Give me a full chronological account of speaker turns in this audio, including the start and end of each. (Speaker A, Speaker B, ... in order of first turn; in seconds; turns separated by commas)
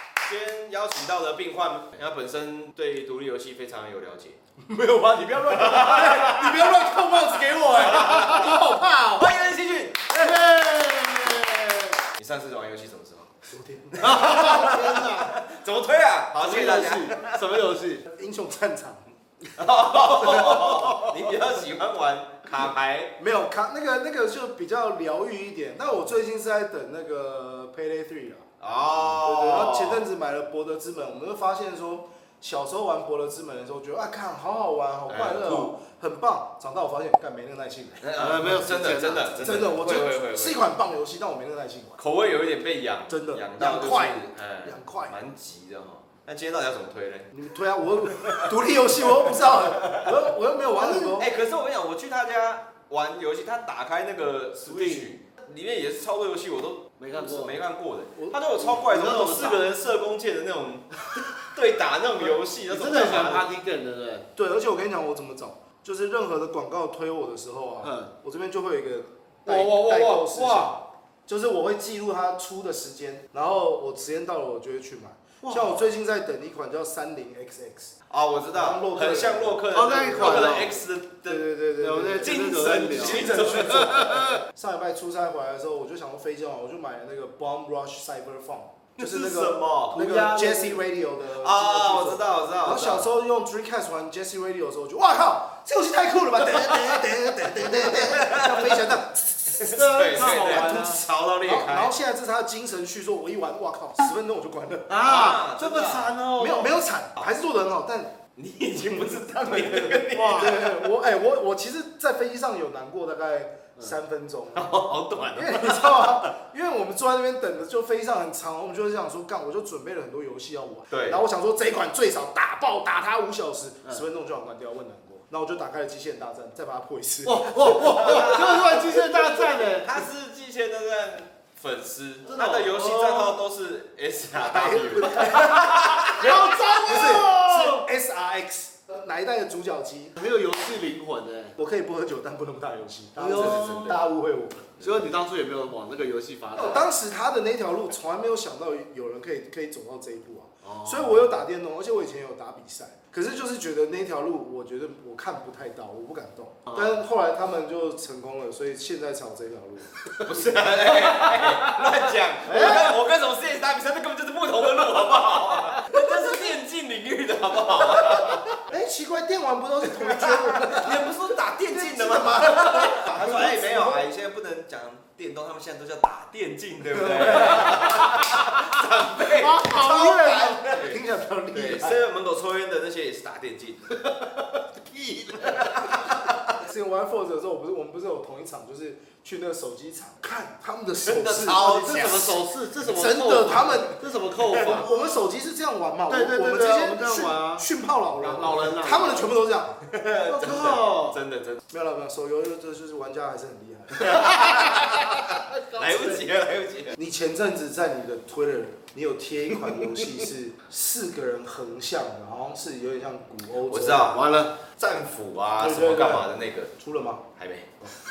Speaker A: 0.2-4.4, Speaker B: 4.6-9.3, Speaker A: 5.5-6.5, Speaker A: 7.7-8.5, Speaker A: 9.2-10.2, Speaker C: 10.1-12.0, Speaker A: 12.2-13.3, Speaker B: 13.5-14.6, Speaker A: 14.0-17.4, Speaker C: 14.0-15.6, Speaker C: 16.4-18.0, Speaker B: 18.1-19.0, Speaker A: 19.6-23.1, Speaker B: 20.5-20.8, Speaker B: 23.2-28.5, Speaker A: 28.6-30.0, Speaker B: 29.1-38.0, Speaker A: 35.1-35.7, Speaker A: 38.0-40.6, Speaker C: 38.2-39.4, Speaker B: 39.4-42.0, Speaker A: 42.0-47.3, Speaker B: 43.1-45.2, Speaker B: 47.3-51.3, Speaker A: 49.7-50.1, Speaker A: 50.8-63.5, Speaker C: 54.7-55.1, Speaker C: 57.0-57.6, Speaker B: 58.2-58.4, Speaker C: 58.6-59.6, Speaker C: 62.7-64.3, Speaker B: 64.3-77.9, Speaker C: 67.8-68.1, Speaker C: 69.5-70.8, Speaker C: 75.4-75.9, Speaker A: 78.1-81.4, Speaker B: 78.5-79.7, Speaker C: 79.7-80.8, Speaker B: 80.2-80.7, Speaker B: 81.2-105.0, Speaker C: 81.8-84.4, Speaker A: 82.2-84.4, Speaker A: 89.0-90.0, Speaker C: 89.9-90.8, Speaker A: 91.4-93.1, Speaker A: 96.4-98.8, Speaker C: 99.5-101.0, Speaker A: 99.6-101.9, Speaker C: 104.9-106.8, Speaker A: 105.0-106.2, Speaker B: 106.3-108.2, Speaker A: 108.3-110.8, Speaker B: 109.4-109.8, Speaker C: 110.1-110.7, Speaker B: 110.3-114.8, Speaker A: 114.5-116.3, Speaker B: 115.3-128.3, Speaker A: 120.9-121.2, Speaker C: 127.2-130.1, Speaker A: 127.8-137.2, Speaker C: 132.2-133.4, Speaker B: 134.3-140.2, Speaker C: 136.1-137.8, Speaker C: 140.2-141.6, Speaker B: 141.6-144.9, Speaker C: 143.2-143.9, Speaker A: 143.3-144.1, Speaker C: 144.8-146.9, Speaker B: 146.6-160.6, Speaker C: 150.6-151.3, Speaker A: 160.2-168.6, Speaker C: 160.9-161.6, Speaker C: 162.5-162.9, Speaker B: 168.0-171.1, Speaker A: 170.0-181.0, Speaker B: 171.7-174.0, Speaker B: 176.9-178.2, Speaker C: 177.4-177.9, Speaker C: 179.2-180.6, Speaker B: 179.4-182.0, Speaker A: 181.5-184.1, Speaker A: 184.9-186.6, Speaker B: 186.5-200.4, Speaker A: 191.1-192.4, Speaker C: 191.6-194.9, Speaker A: 194.5-194.8, Speaker C: 196.1-197.7, Speaker C: 198.2-199.3, Speaker A: 199.8-201.6, Speaker C: 200.3-201.2, Speaker B: 201.7-204.4, Speaker A: 204.0-207.0, Speaker C: 205.7-206.2, Speaker B: 207.0-214.2, Speaker A: 213.7-214.2, Speaker C: 214.1-214.5, Speaker A: 214.7-216.7, Speaker B: 215.6-217.2, Speaker A: 217.4-217.8